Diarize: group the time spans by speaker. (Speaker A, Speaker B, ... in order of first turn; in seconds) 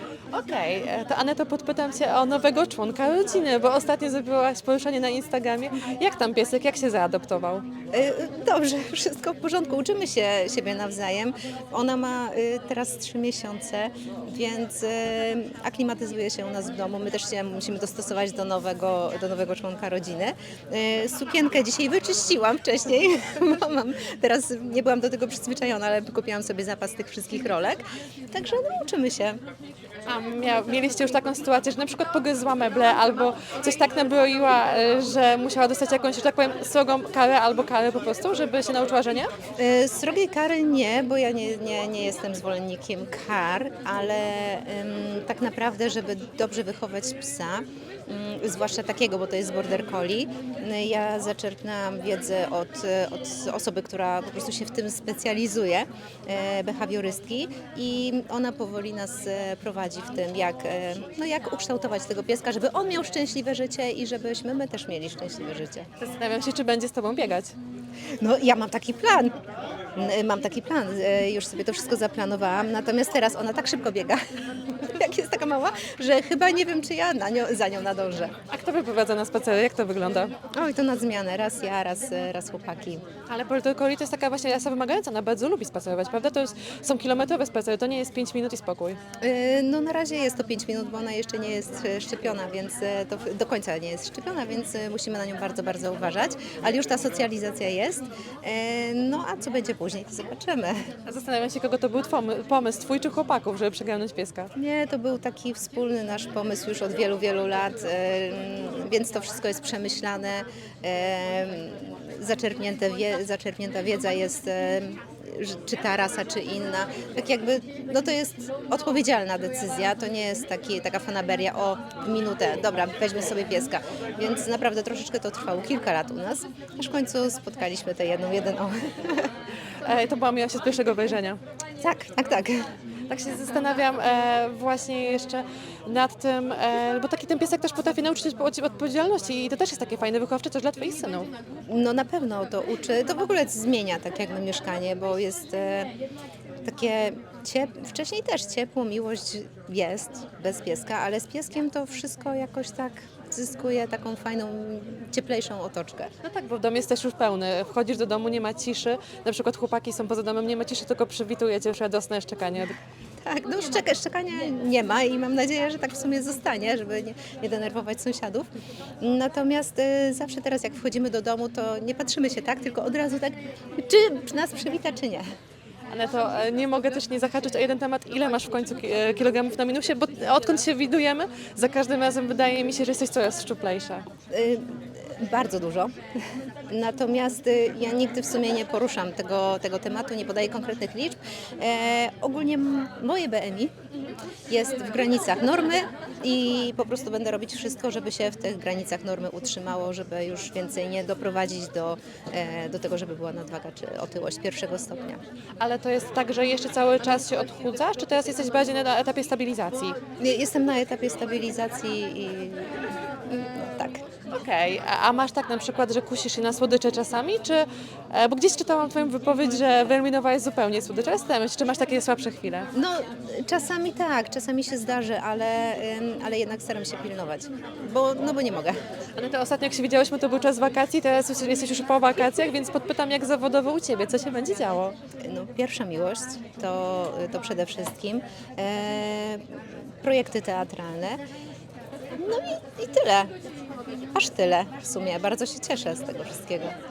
Speaker A: 0.3-7.6, 30.1-39.3, 66.0-67.5, 78.5-80.3, 83.3-89.0, 101.0-104.5, 129.8-131.4, 133.1-141.3, 156.2-162.7, 175.9-184.0, 205.6-209.9, 214.3-222.7, 229.2-234.9
Speaker B: 7.9-29.4, 39.6-65.9, 68.2-69.3, 69.9-78.3, 80.5-83.0, 89.2-100.8, 104.5-129.3, 131.8-132.6, 141.7-145.9, 146.6-156.1, 163.2-168.5, 169.0-175.2, 184.3-185.9, 186.7-193.7, 194.5-205.2, 210.2-214.0, 222.7-228.8, 235.2-241.2, 242.2-243.3, 244.1-246.7